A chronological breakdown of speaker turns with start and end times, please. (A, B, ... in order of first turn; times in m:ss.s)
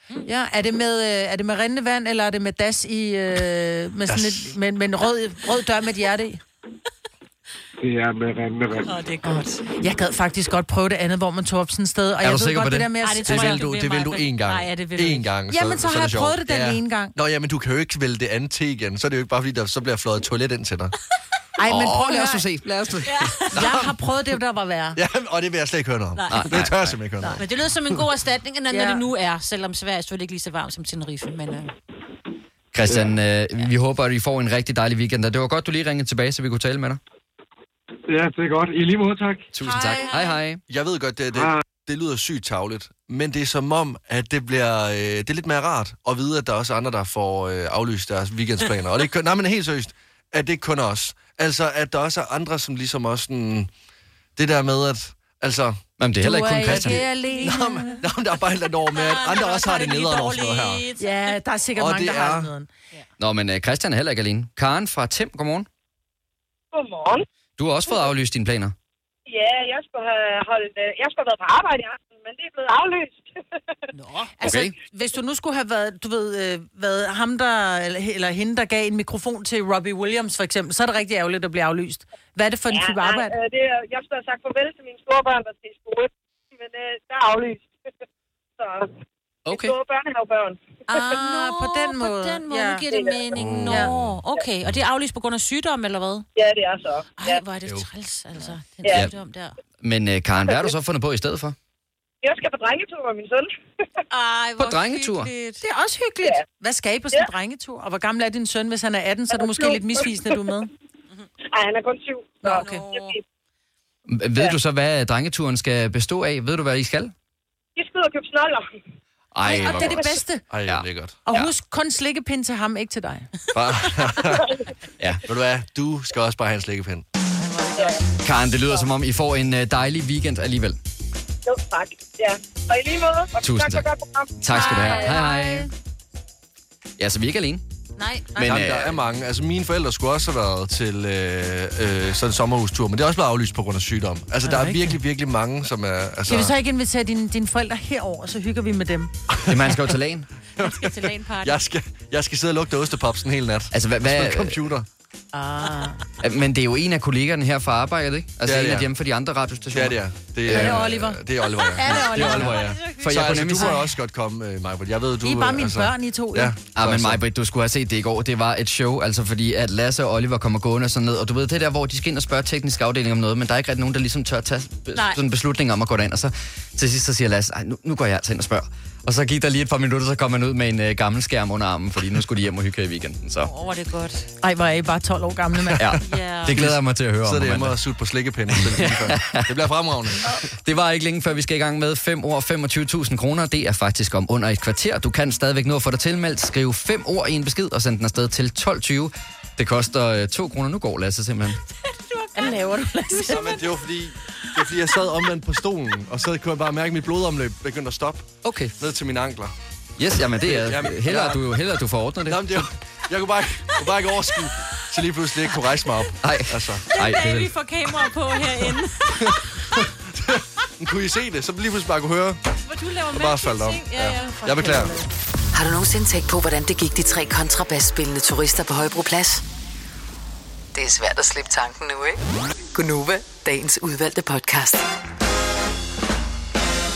0:00.3-0:06.4 A
0:04.1-0:04.5 B
0:07.8-0:08.9 C
0:08.8-0:09.6 D
0:09.2-0:13.7 A
0:12.2-0:12.9 E
0:13.0-0:15.3 D
0:13.3-0:20.9 B
0:15.5-0:17.1 A
0:21.6-0:22.4 A
0:21.6-0:23.5 E
0:23.1-0:23.6 D
0:23.5-0:25.0 A
0:23.6-0:23.9 B
0:25.0-0:27.5 B
0:26.2-0:26.6 D
0:26.3-0:27.0 E
0:27.4-0:31.7 D
0:28.7-0:29.0 A
0:32.7-0:37.0 E
0:38.1-0:39.5 C
0:39.5-0:40.6 E
0:39.6-0:40.3 A
0:40.7-0:53.7 B
0:41.3-0:41.6 C
0:54.4-0:55.8 B
0:56.0-0:57.0 E
0:56.2-0:58.0 A
0:56.7-1:00.9 B
0:58.9-1:01.3 D
1:01.0-1:02.7 A
1:01.8-1:02.5 B
1:03.2-1:05.7 E
1:06.7-1:07.1 F
1:07.6-1:08.8 E
1:09.3-1:13.3 F
1:14.0-1:14.3 D
1:14.4-1:23.4 A
1:14.4-1:14.7 E
1:22.7-1:27.6 F
1:28.6-1:28.9 F
1:29.5-1:29.8 E
1:29.5-1:30.6 F
1:30.9-1:36.3 D
1:30.9-1:32.8 A
1:32.9-1:33.4 F
1:33.3-1:34.2 B
1:36.4-1:37.4 F
1:37.2-1:39.5 D
1:39.8-1:41.6 E
1:42.2-1:43.5 F
1:44.1-1:45.6 D
1:44.6-1:45.3 E
1:45.6-1:50.7 A
1:49.5-1:49.8 F
1:51.6-1:52.6 F
1:52.4-1:52.9 A
1:52.4-1:53.2 D
1:54.1-1:57.1 E
1:57.8-1:58.6 F
1:59.3-2:01.5 E
1:59.4-2:00.4 A
2:00.5-2:01.2 B
2:01.2-2:03.3 A
2:03.5-2:04.5 B
2:05.0-2:05.2 E
2:05.3-2:07.0 B
2:07.5-2:08.0 D
2:07.8-2:08.0 F
2:08.2-2:10.8 E
2:11.5-2:14.3 F
2:13.4-2:13.9 E
2:14.4-2:15.7 E
2:14.5-2:15.2 D
2:14.5-2:15.7 A
2:17.0-2:17.6 E
2:18.0-2:18.5 A
2:18.0-2:18.4 D
2:18.4-2:19.0 E
2:18.4-2:26.5 B
2:24.4-2:25.0 A
2:26.3-2:29.1 A
2:29.3-2:29.6 B
2:29.5-2:30.3 E
2:30.6-2:31.6 D
2:30.6-2:34.9 B
2:33.7-2:34.6 E
2:35.3-2:36.0 A
2:36.2-2:40.0 E
2:38.4-2:38.9 B
2:39.7-2:47.2 B
2:40.5-2:40.8 E
2:40.5-2:41.2 A
2:41.4-2:43.4 D
2:41.8-2:42.6 A
2:42.2-2:43.8 E
2:45.2-2:46.5 A
2:46.8-3:03.5 E
2:55.0-2:55.2 D
3:03.4-3:04.3 D
3:04.4-3:06.0 A
3:05.7-3:10.3 B
3:05.8-3:07.8 E
3:06.0-3:06.6 D
3:08.5-3:09.6 E
3:10.5-3:21.6 E
3:21.8-3:23.7 D
3:22.4-3:23.4 A
3:23.3-3:29.5 B
3:28.4-3:28.8 E
3:30.0-3:32.7 E
3:30.4-3:31.5 B
3:32.3-3:37.1 B
3:36.2-3:37.5 E
3:36.9-3:39.9 D
3:39.1-3:42.5 B
3:42.6-3:44.4 D
3:43.1-3:44.9 B
3:44.2-3:45.0 A
3:45.5-3:49.4 G
3:50.7-3:52.2 G
3:52.8-3:54.9 G